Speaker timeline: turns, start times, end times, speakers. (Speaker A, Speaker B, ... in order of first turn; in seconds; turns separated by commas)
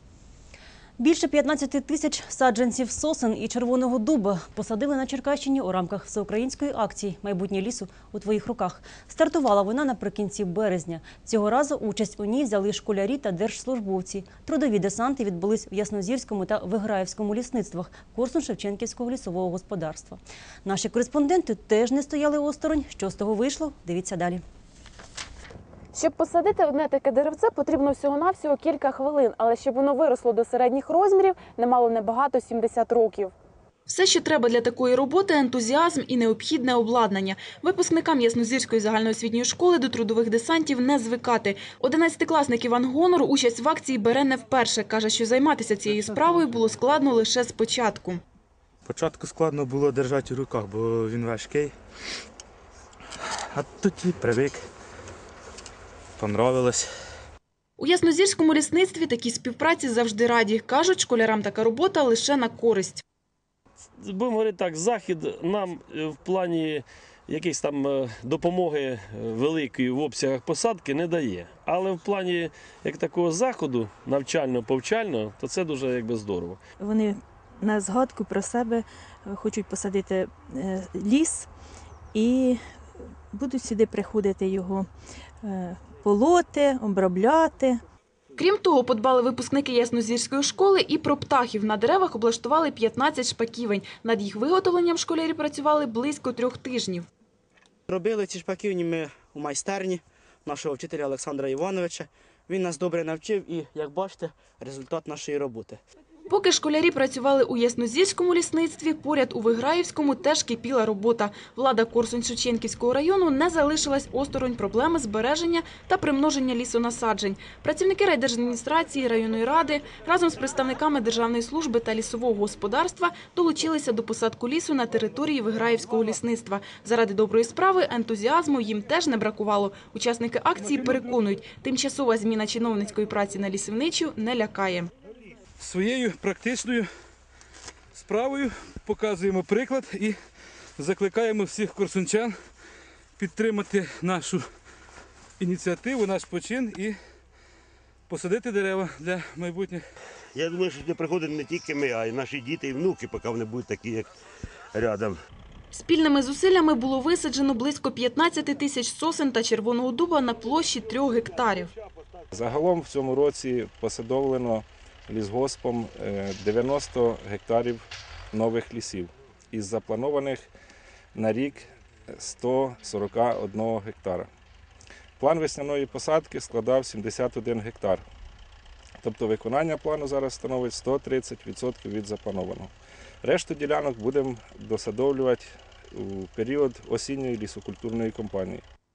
Speaker A: 1.0-24.4, Speaker B: 25.9-33.3, Speaker B: 33.9-48.2, Speaker C: 48.9-51.7, Speaker C: 53.5-54.7, Speaker C: 56.2-56.9, Speaker B: 57.8-63.0, Speaker D: 64.0-76.6, Speaker E: 76.8-81.5, Speaker E: 82.1-82.6, Speaker E: 83.3-84.9, Speaker E: 85.4-87.8, Speaker B: 88.4-97.1, Speaker F: 97.9-105.8, Speaker B: 106.3-134.9, Speaker G: 130.6-131.1, Speaker G: 135.6-136.9, Speaker G: 137.9-140.2, Speaker G: 140.8-142.3, Speaker G: 143.2-144.4, Speaker G: 145.4-146.9, Speaker G: 148.1-149.8, Speaker H: 150.3-154.1, Speaker H: 154.7-155.2, Speaker B: 155.7-161.7, Speaker I: 162.3-170.5, Speaker I: 171.1-174.3, Speaker I: 175.2-178.1, Speaker I: 179.0-182.7, Speaker I: 183.2-188.6